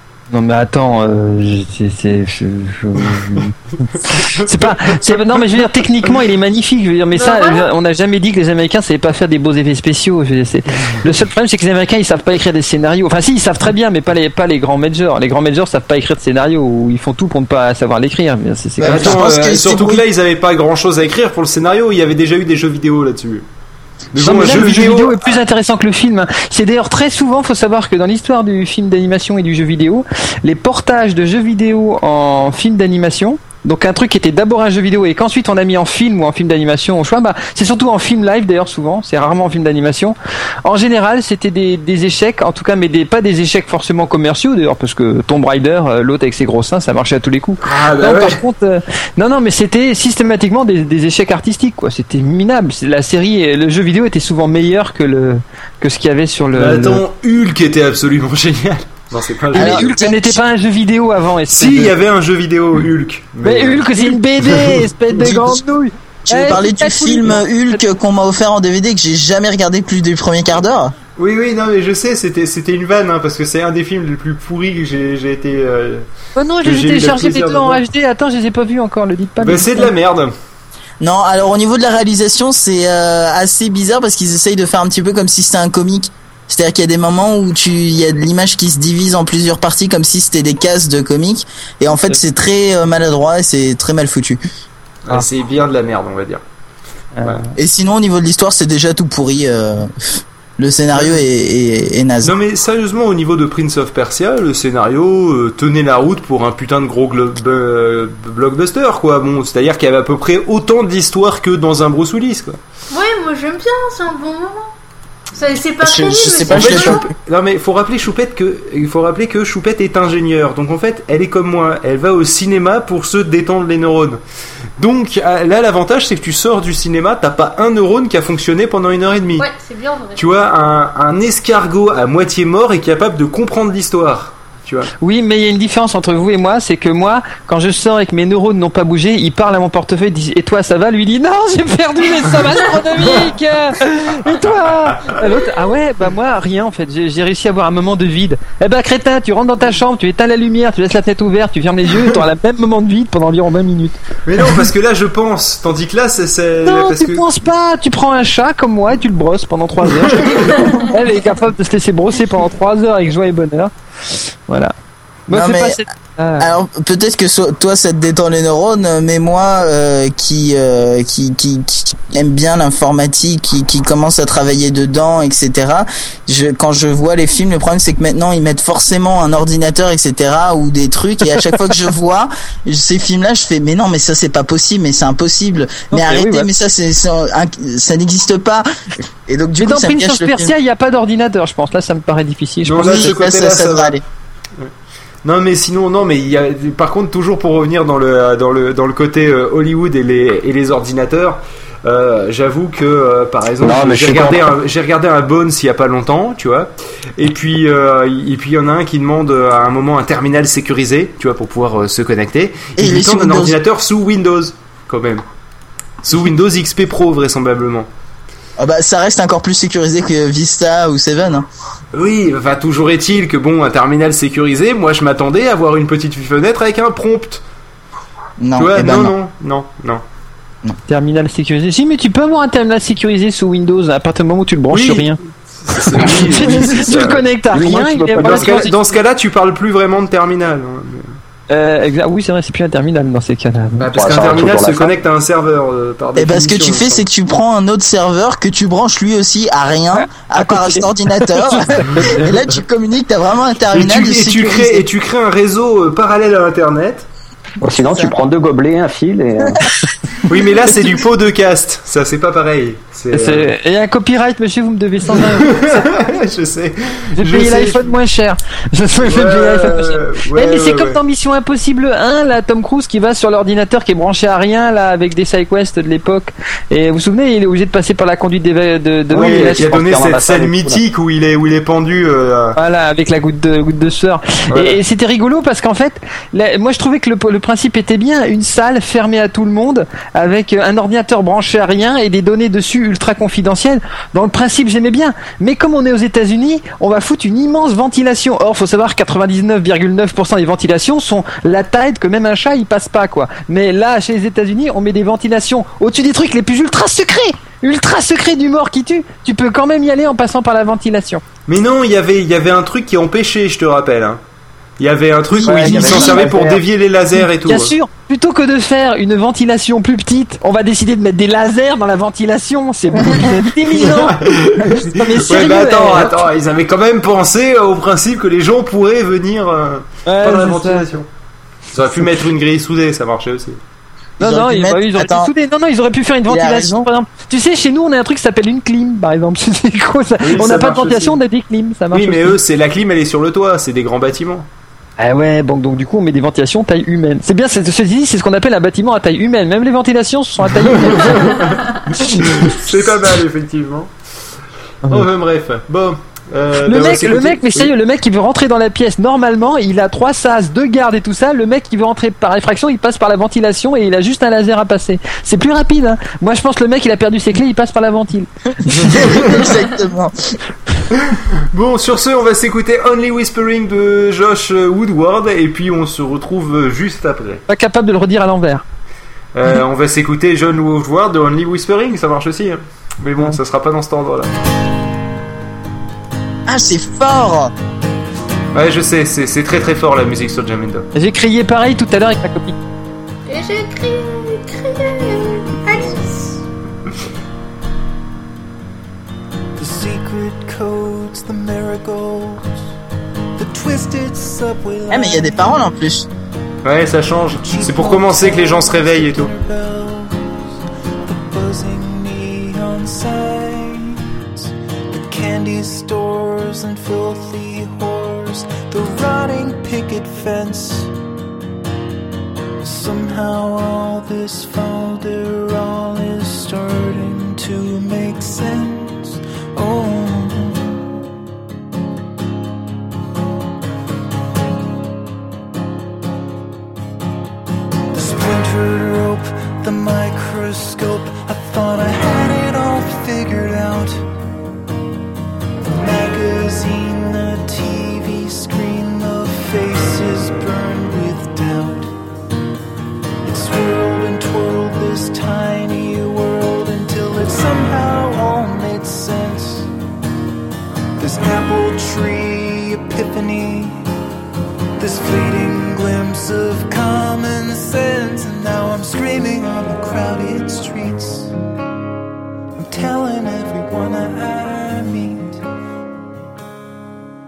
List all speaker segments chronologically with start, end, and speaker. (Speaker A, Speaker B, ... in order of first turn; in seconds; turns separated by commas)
Speaker A: 0.3-19.2, Speaker B: 4.2-4.8, Speaker C: 7.2-7.7, Speaker D: 18.8-20.1, Speaker B: 18.8-23.5, Speaker B: 24.1-25.3, Speaker A: 24.2-57.0, Speaker B: 47.6-48.4, Speaker B: 56.5-59.9, Speaker A: 59.5-61.9, Speaker D: 59.5-60.4, Speaker B: 61.5-64.9, Speaker A: 63.4-67.8, Speaker D: 65.2-65.6, Speaker D: 66.3-70.9, Speaker B: 71.2-76.0, Speaker A: 76.3-79.9, Speaker B: 76.6-77.8, Speaker B: 79.4-80.3, Speaker D: 81.0-94.4, Speaker B: 95.1-96.4, Speaker A: 97.2-97.5, Speaker D: 97.6-99.9, Speaker D: 100.6-102.3, Speaker B: 100.9-101.2, Speaker B: 102.2-112.6, Speaker C: 112.9-114.7, Speaker C: 115.3-117.1, Speaker D: 115.8-117.0, Speaker B: 116.5-124.2, Speaker B: 124.8-129.5, Speaker C: 129.4-130.3, Speaker B: 130.2-134.9, Speaker A: 135.0-154.0, Speaker B: 154.3-157.2, Speaker A: 156.6-163.7, Speaker B: 160.0-160.4, Speaker A: 164.5-164.7, Speaker A: 165.3-166.5, Speaker D: 165.3-165.8, Speaker D: 166.4-188.7, Speaker A: 185.9-186.5, Speaker D: 189.3-190.6, Speaker A: 189.6-193.2, Speaker B: 192.7-194.0, Speaker D: 192.8-194.0, Speaker B: 195.2-215.2, Speaker E: 203.6-204.5, Speaker D: 212.8-213.6, Speaker B: 216.0-217.9, Speaker D: 218.6-221.5, Speaker B: 221.9-227.4, Speaker D: 228.4-229.2, Speaker B: 228.6-230.0, Speaker A: 230.9-235.2, Speaker B: 234.7-237.2, Speaker A: 235.8-238.7, Speaker E: 237.5-238.6, Speaker B: 238.2-241.1, Speaker A: 241.5-244.2, Speaker B: 243.8-247.0, Speaker E: 243.9-244.9, Speaker D: 246.2-254.9, Speaker A: 250.0-252.3, Speaker B: 253.7-257.1, Speaker E: 257.6-259.6, Speaker A: 257.9-258.1, Speaker B: 260.2-263.5, Speaker A: 263.1-265.9, Speaker B: 265.1-267.9, Speaker A: 267.2-279.7, Speaker B: 269.0-271.0, Speaker B: 279.1-282.6, Speaker E: 279.1-280.8, Speaker A: 282.6-311.2, Speaker B: 284.5-284.8, Speaker B: 311.5-314.2, Speaker B: 314.8-317.7, Speaker D: 315.3-316.4, Speaker E: 315.5-316.6, Speaker A: 317.4-326.2, Speaker B: 323.8-331.1, Speaker A: 330.1-330.9, Speaker B: 331.7-333.6, Speaker D: 334.2-335.3, Speaker A: 334.2-342.4, Speaker D: 336.3-336.9, Speaker B: 340.2-341.2, Speaker B: 341.9-344.5, Speaker A: 345.0-351.4, Speaker B: 350.6-353.9, Speaker B: 354.9-357.7, Speaker A: 356.6-368.8, Speaker D: 368.6-370.1, Speaker B: 371.5-377.4, Speaker A: 377.5-378.6, Speaker B: 379.3-384.3, Speaker D: 386.5-387.5, Speaker B: 388.5-390.9, Speaker A: 390.9-392.6, Speaker C: 393.3-396.4, Speaker F: 399.6-402.7, Speaker F: 403.4-405.6, Speaker D: 404.9-406.1, Speaker B: 406.6-409.3, Speaker F: 407.4-410.4, Speaker F: 411.1-420.9, Speaker F: 422.6-430.8, Speaker F: 437.9-444.1, Speaker F: 445.6-451.9, Speaker F: 453.2-459.7, Speaker F: 461.0-463.9, Speaker F: 464.8-471.3, Speaker F: 472.6-475.4